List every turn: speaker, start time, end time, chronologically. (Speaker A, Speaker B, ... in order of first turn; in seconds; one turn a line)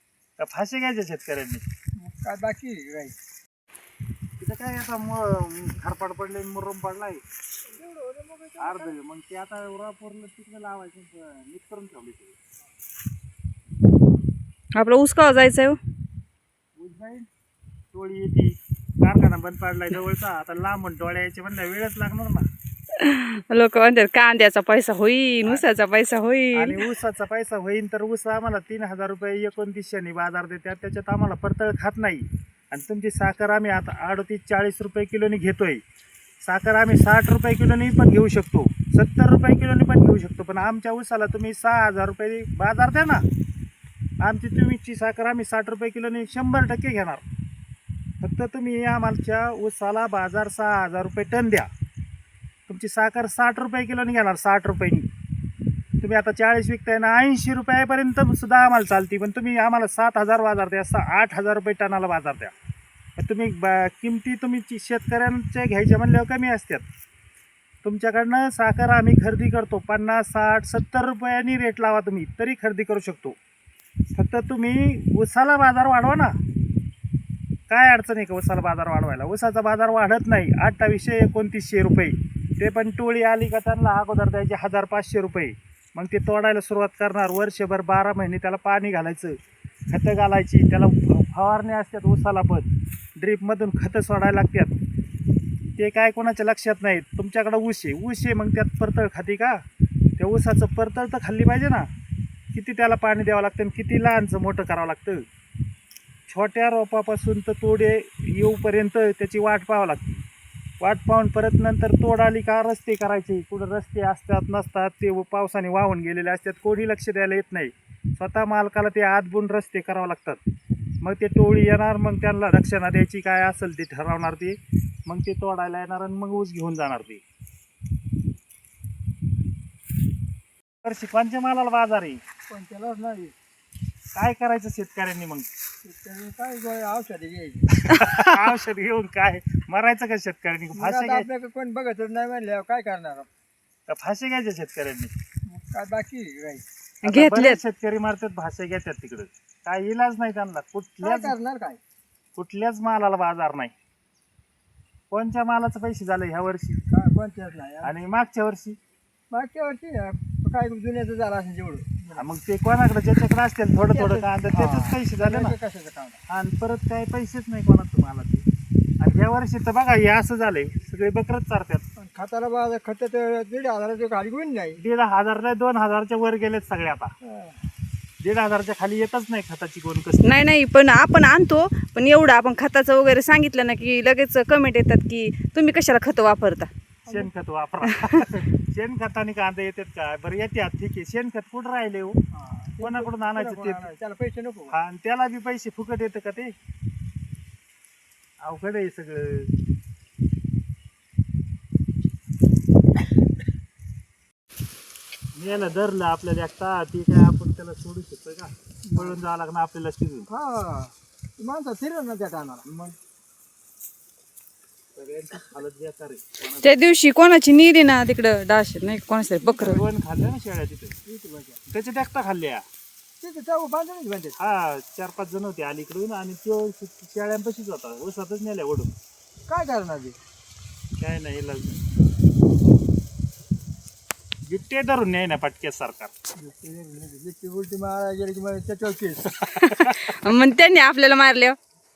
Speaker A: 0.4-1.6
Speaker B: 2.0-3.1
Speaker A: 4.4-7.2
Speaker B: 7.7-8.9
Speaker A: 8.6-12.4
Speaker C: 14.7-15.8
Speaker A: 16.8-17.3
Speaker A: 17.9-22.5
Speaker C: 23.0-26.8
Speaker A: 26.5-35.8
Speaker A: 36.4-43.2
Speaker A: 44.2-47.2
Speaker A: 48.2-51.7
Speaker A: 52.7-55.1
Speaker A: 56.0-62.5
Speaker A: 63.2-66.8
Speaker A: 67.8-73.4
Speaker A: 74.1-76.3
Speaker A: 77.7-89.3
Speaker A: 89.9-94.8
Speaker A: 95.8-99.6
Speaker A: 100.2-101.9
Speaker A: 102.5-105.2
Speaker A: 106.3-110.2
Speaker A: 110.8-120.4
Speaker A: 121.0-127.2
Speaker A: 130.8-132.2
Speaker B: 132.5-133.3
Speaker A: 134.1-135.5
Speaker B: 135.8-137.7
Speaker A: 137.9-141.3
Speaker B: 140.7-143.3
Speaker A: 143.9-145.1
Speaker B: 145.5-146.6
Speaker C: 147.0-147.6
Speaker A: 147.0-151.3
Speaker B: 151.0-151.8
Speaker A: 152.3-153.7
Speaker A: 155.1-156.8
Speaker B: 156.9-157.9
Speaker A: 157.8-158.8
Speaker B: 159.3-162.3
Speaker A: 162.1-165.5
Speaker B: 163.9-166.2
Speaker A: 166.3-168.4
Speaker A: 169.0-171.8
Speaker B: 172.0-174.8
Speaker A: 174.8-177.1
Speaker B: 177.2-177.6
Speaker A: 178.2-180.4
Speaker C: 180.2-186.7
Speaker A: 187.1-192.2
Speaker C: 187.8-188.2
Speaker B: 192.3-194.8
Speaker A: 192.8-193.9
Speaker A: 194.7-196.5
Speaker A: 198.4-199.5
Speaker A: 205.3-210.3
Speaker B: 208.9-209.2
Speaker B: 210.3-212.6
Speaker A: 212.6-212.9
Speaker A: 214.9-217.0
Speaker C: 216.6-219.8
Speaker A: 219.4-220.9
Speaker B: 221.1-221.6
Speaker A: 221.7-222.6
Speaker B: 223.2-224.3
Speaker A: 224.4-228.9
Speaker B: 229.5-230.2
Speaker A: 231.0-231.8
Speaker A: 234.4-236.1
Speaker B: 236.3-239.4
Speaker A: 239.4-240.2
Speaker C: 239.6-241.6